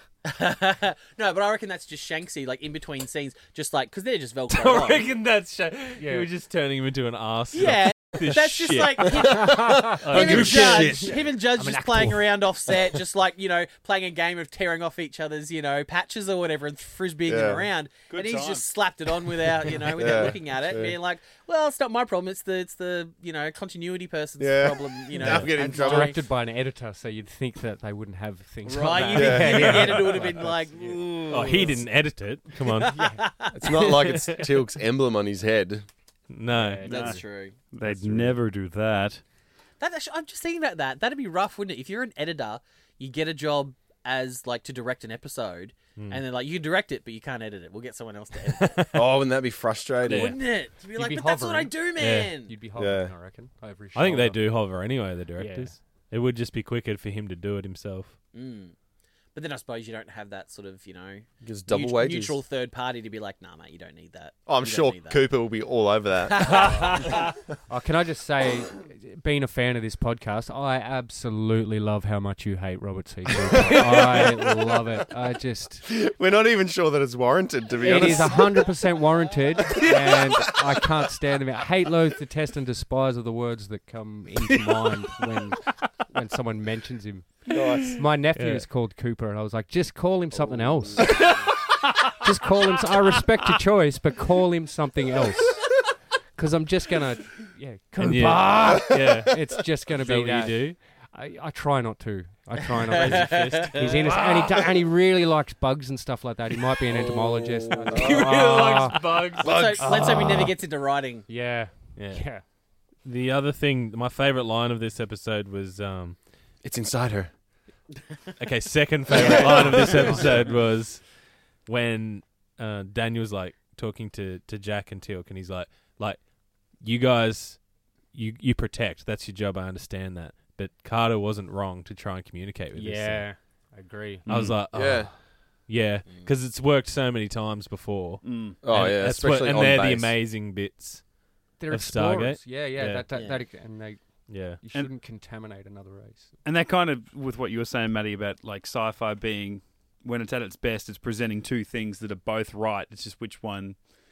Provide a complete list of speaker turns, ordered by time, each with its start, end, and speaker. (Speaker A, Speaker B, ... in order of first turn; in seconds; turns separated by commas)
Speaker A: 0.2-5.1, Speaker B: 4.5-9.2, Speaker C: 6.0-6.3, Speaker A: 7.5-26.2, Speaker C: 9.3-12.3, Speaker D: 9.3-11.2, Speaker B: 10.0-10.8, Speaker D: 17.3-17.6, Speaker E: 18.1-18.6, Speaker D: 19.9-20.9, Speaker D: 24.4-26.2, Speaker C: 25.2-31.7, Speaker A: 28.6-31.8, Speaker D: 29.1-30.2, Speaker B: 31.3-33.0, Speaker A: 32.6-34.4, Speaker C: 32.9-33.2, Speaker D: 33.5-35.9, Speaker B: 36.3-36.9, Speaker C: 36.5-37.2, Speaker E: 36.9-37.2, Speaker A: 36.9-37.5, Speaker E: 37.7-39.2, Speaker D: 37.9-38.1, Speaker A: 39.8-48.9, Speaker B: 46.0-46.2, Speaker B: 48.5-49.0, Speaker D: 48.9-50.3, Speaker A: 50.0-52.5, Speaker B: 50.1-50.4, Speaker C: 50.9-51.9, Speaker B: 52.0-52.3, Speaker C: 52.5-54.7, Speaker D: 52.8-53.1, Speaker B: 53.9-58.1, Speaker C: 55.4-55.8, Speaker A: 58.3-58.7, Speaker A: 59.3-65.2, Speaker D: 61.4-62.4, Speaker D: 64.5-66.9, Speaker A: 66.3-67.3, Speaker C: 66.5-75.8, Speaker D: 75.9-78.7, Speaker C: 77.8-91.4, Speaker D: 87.5-88.0, Speaker B: 88.3-88.7, Speaker D: 90.3-91.0, Speaker C: 92.2-95.8, Speaker C: 96.3-109.3, Speaker B: 98.0-100.8, Speaker A: 102.8-103.8, Speaker B: 103.0-104.2, Speaker D: 107.9-108.6, Speaker B: 107.9-110.3, Speaker A: 109.3-111.3, Speaker D: 109.4-110.2, Speaker C: 111.3-112.4, Speaker B: 112.0-112.2, Speaker B: 113.0-116.2, Speaker D: 116.6-117.3, Speaker B: 118.4-121.1, Speaker A: 119.2-120.2, Speaker C: 119.4-120.4, Speaker B: 121.7-126.2, Speaker B: 126.8-127.6, Speaker B: 128.1-133.3, Speaker C: 132.7-134.2, Speaker B: 134.2-141.1, Speaker E: 134.3-134.6, Speaker D: 134.7-135.1, Speaker E: 138.2-138.6, Speaker D: 138.6-140.1, Speaker C: 141.6-146.3, Speaker B: 141.7-143.0, Speaker A: 143.1-143.4, Speaker B: 144.3-144.6, Speaker E: 146.4-153.8